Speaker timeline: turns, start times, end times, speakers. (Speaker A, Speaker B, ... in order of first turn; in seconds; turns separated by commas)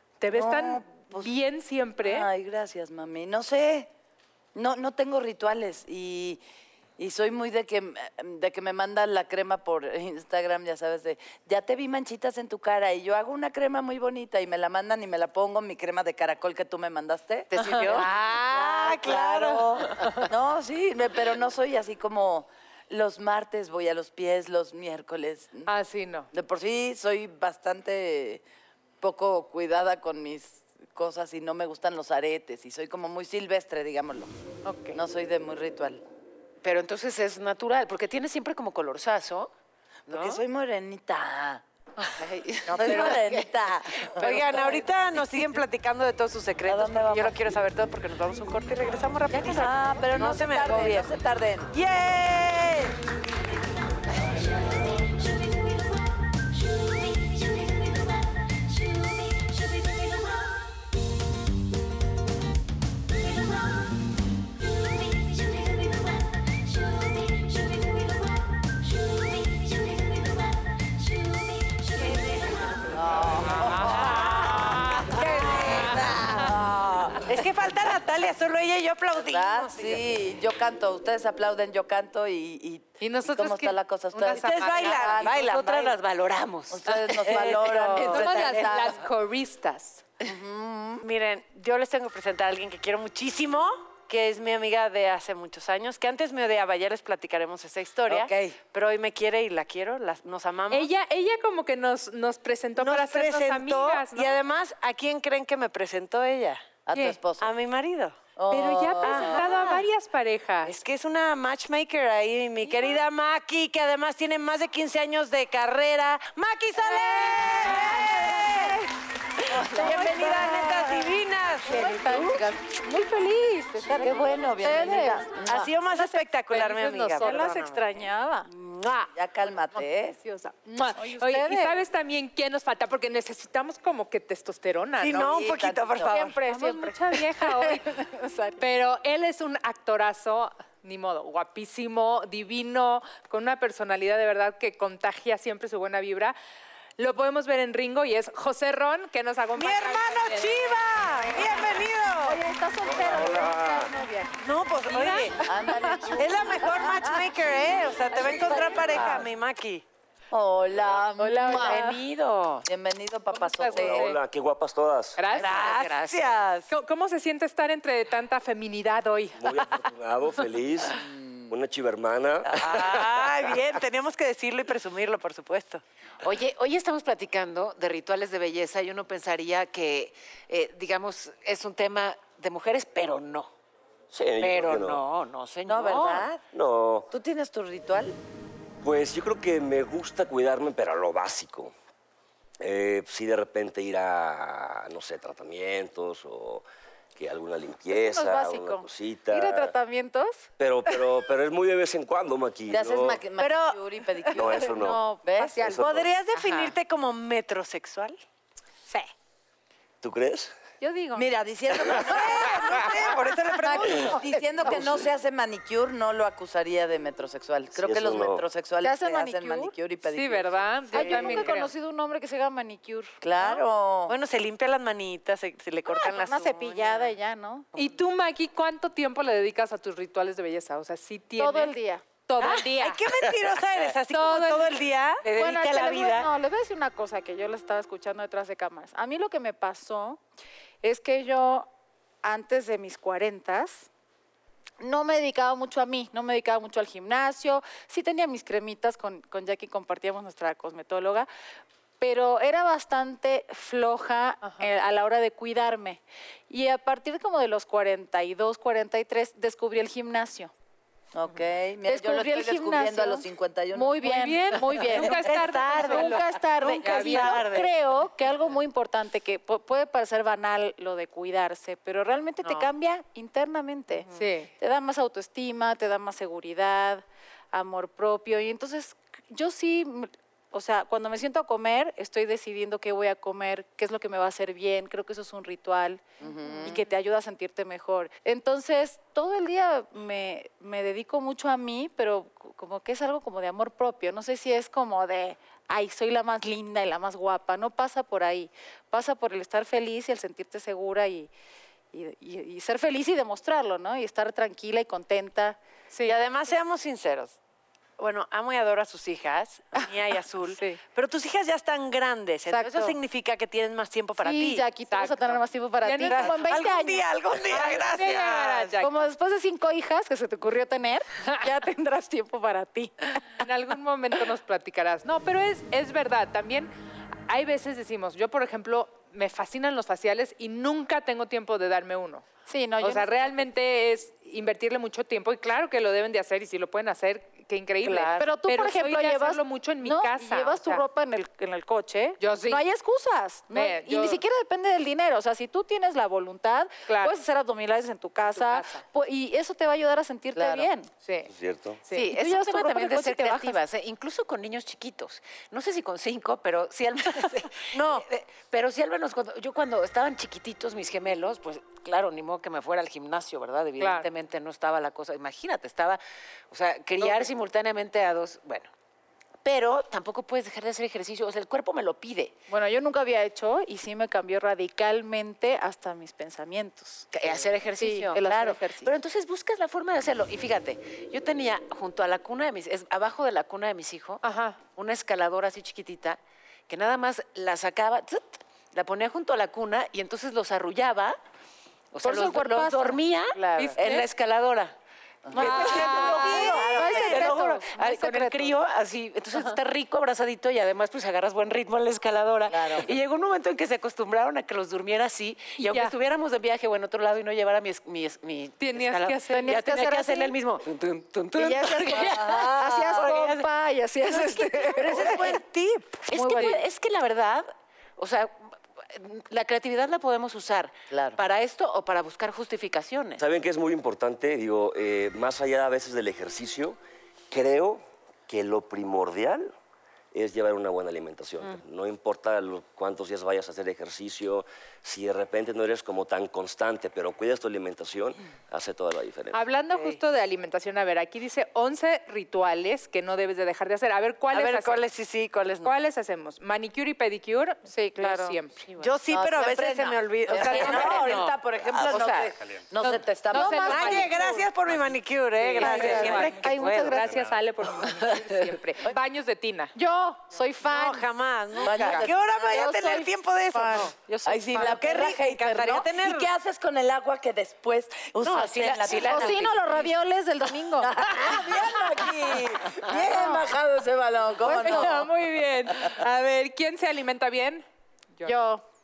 Speaker A: 0.2-2.3, Speaker B: 0.3-1.3, Speaker B: 2.0-3.9, Speaker B: 4.5-6.4, Speaker B: 7.0-25.7, Speaker A: 17.5-17.9, Speaker C: 17.5-18.3, Speaker D: 17.8-19.8, Speaker A: 25.7-26.3, Speaker B: 26.3-28.4, Speaker B: 29.0-34.3, Speaker A: 34.6-35.0, Speaker B: 34.9-36.0, Speaker C: 36.6-39.5, Speaker C: 40.1-40.4, Speaker B: 40.1-41.6, Speaker C: 42.1-44.4, Speaker B: 42.7-44.8, Speaker D: 42.8-43.2, Speaker D: 44.2-51.1, Speaker B: 46.6-47.4, Speaker B: 49.3-51.7, Speaker D: 51.7-53.0, Speaker B: 72.9-77.2, Speaker A: 74.2-75.1, Speaker D: 75.1-75.9, Speaker D: 77.3-80.0, Speaker B: 79.2-85.9, Speaker A: 83.0-85.1, Speaker D: 84.3-85.9, Speaker C: 85.2-88.8, Speaker B: 86.7-89.0, Speaker A: 86.9-90.0, Speaker B: 90.2-91.0, Speaker D: 91.0-100.9, Speaker B: 98.1-98.6, Speaker A: 100.7-104.3, Speaker D: 102.8-106.8, Speaker B: 106.9-107.5, Speaker A: 106.9-107.2, Speaker D: 107.4-108.2, Speaker B: 108.4-109.6, Speaker A: 108.5-110.8, Speaker D: 109.0-109.8, Speaker D: 110.6-118.8, Speaker B: 117.7-118.1, Speaker B: 119.5-121.2, Speaker E: 119.5-120.5, Speaker D: 119.6-122.4, Speaker E: 121.6-128.5, Speaker B: 124.0-125.7, Speaker D: 125.5-129.1, Speaker A: 126.5-127.5, Speaker B: 129.1-130.2, Speaker A: 129.8-135.4, Speaker E: 130.9-131.8, Speaker D: 135.0-136.4, Speaker B: 135.1-136.2, Speaker E: 136.0-138.6, Speaker A: 136.4-138.0, Speaker A: 138.6-146.4, Speaker A: 147.0-150.8, Speaker D: 149.6-152.4, Speaker E: 152.2-154.3, Speaker F: 152.8-153.9, Speaker D: 154.4-155.4, Speaker E: 154.9-155.3, Speaker B: 155.4-157.3, Speaker A: 155.7-156.0, Speaker D: 156.1-159.8, Speaker E: 156.7-157.1, Speaker E: 158.1-159.1, Speaker B: 160.3-162.0, Speaker E: 160.9-162.0, Speaker C: 161.5-162.7, Speaker B: 162.7-164.1, Speaker A: 163.3-164.2, Speaker F: 163.7-165.2, Speaker A: 165.2-169.7, Speaker D: 165.3-166.7, Speaker C: 165.4-166.2, Speaker F: 169.4-173.3, Speaker B: 170.9-171.5, Speaker D: 172.5-175.8, Speaker C: 176.2-183.5, Speaker F: 184.1-185.0, Speaker C: 184.4-186.3, Speaker B: 185.7-186.4, Speaker F: 186.5-187.1, Speaker B: 187.1-188.2, Speaker F: 188.8-191.7, Speaker F: 192.6-196.7, Speaker F: 197.2-199.7, Speaker E: 197.9-200.5, Speaker F: 200.6-203.2, Speaker B: 202.7-205.6, Speaker D: 203.4-203.8, Speaker F: 204.3-206.1, Speaker E: 204.6-205.5, Speaker D: 205.6-208.2, Speaker F: 210.0-210.5, Speaker E: 210.8-211.3, Speaker B: 211.1-221.4, Speaker D: 212.0-214.8, Speaker F: 217.8-218.4, Speaker E: 218.8-219.7, Speaker A: 220.1-221.7, Speaker E: 220.9-223.2, Speaker B: 223.2-224.2, Speaker D: 224.1-227.1, Speaker E: 225.9-227.7, Speaker A: 227.8-233.1, Speaker E: 231.4-232.0, Speaker D: 232.4-236.3, Speaker A: 234.1-234.8, Speaker C: 235.2-236.0, Speaker E: 235.3-240.2, Speaker E: 240.8-241.7, Speaker E: 242.2-243.9, Speaker E: 244.8-251.3, Speaker E: 252.0-260.5, Speaker B: 261.1-264.1, Speaker E: 261.9-274.1, Speaker A: 264.0-267.5, Speaker C: 264.8-267.7, Speaker D: 265.3-265.9, Speaker A: 274.1-274.5, Speaker E: 274.6-301.3, Speaker B: 286.2-286.8, Speaker E: 301.9-305.6, Speaker A: 305.9-306.2, Speaker D: 306.1-307.4, Speaker D: 308.0-314.6, Speaker E: 312.5-313.0, Speaker E: 314.2-317.1, Speaker A: 314.9-316.5, Speaker D: 316.1-318.8, Speaker A: 317.5-318.9, Speaker E: 318.8-323.2, Speaker A: 323.4-326.7, Speaker A: 327.3-332.3, Speaker E: 332.5-333.4, Speaker A: 332.8-340.8, Speaker D: 337.9-338.2, Speaker E: 338.2-350.9, Speaker A: 342.2-342.6, Speaker A: 343.5-344.2, Speaker A: 346.9-347.2, Speaker A: 348.2-348.8, Speaker B: 350.4-350.7, Speaker A: 351.0-351.3, Speaker F: 351.3-351.8, Speaker A: 351.9-352.1, Speaker C: 351.9-368.7, Speaker E: 352.0-353.6, Speaker D: 357.7-358.1, Speaker A: 363.8-364.1, Speaker C: 369.4-372.3, Speaker E: 372.5-377.1, Speaker C: 377.1-391.2, Speaker E: 377.8-378.9, Speaker A: 384.2-384.6, Speaker C: 391.9-394.8, Speaker E: 392.0-393.8, Speaker A: 393.6-394.1, Speaker B: 395.3-397.4, Speaker E: 395.4-398.6, Speaker A: 395.4-396.7, Speaker D: 395.4-397.4, Speaker C: 395.4-413.4, Speaker B: 402.5-402.9, Speaker A: 405.6-405.9, Speaker A: 408.6-409.6, Speaker E: 409.3-410.4, Speaker E: 411.4-415.4, Speaker B: 411.9-413.1, Speaker D: 414.1-416.1, Speaker C: 416.1-423.2, Speaker E: 416.1-416.6, Speaker B: 420.9-421.2, Speaker F: 423.2-426.8, Speaker F: 427.3-429.5, Speaker F: 430.1-439.4, Speaker A: 439.3-444.8, Speaker D: 444.3-445.7, Speaker A: 445.6-448.7, Speaker E: 447.7-448.4, Speaker D: 448.8-451.3, Speaker B: 449.1-454.1, Speaker C: 450.4-452.2, Speaker D: 451.9-452.3, Speaker A: 453.3-454.3, Speaker E: 453.3-454.5, Speaker D: 453.5-456.9, Speaker C: 455.4-457.1, Speaker A: 455.5-459.7, Speaker E: 455.6-457.2, Speaker E: 459.8-461.1, Speaker D: 460.6-463.9, Speaker B: 461.6-462.6, Speaker E: 461.6-465.0, Speaker B: 464.2-469.6, Speaker D: 464.5-466.3, Speaker C: 468.2-469.8, Speaker E: 469.0-471.0, Speaker B: 470.8-475.1, Speaker E: 472.9-473.5, Speaker E: 474.4-475.1, Speaker A: 474.5-477.6, Speaker E: 478.2-478.6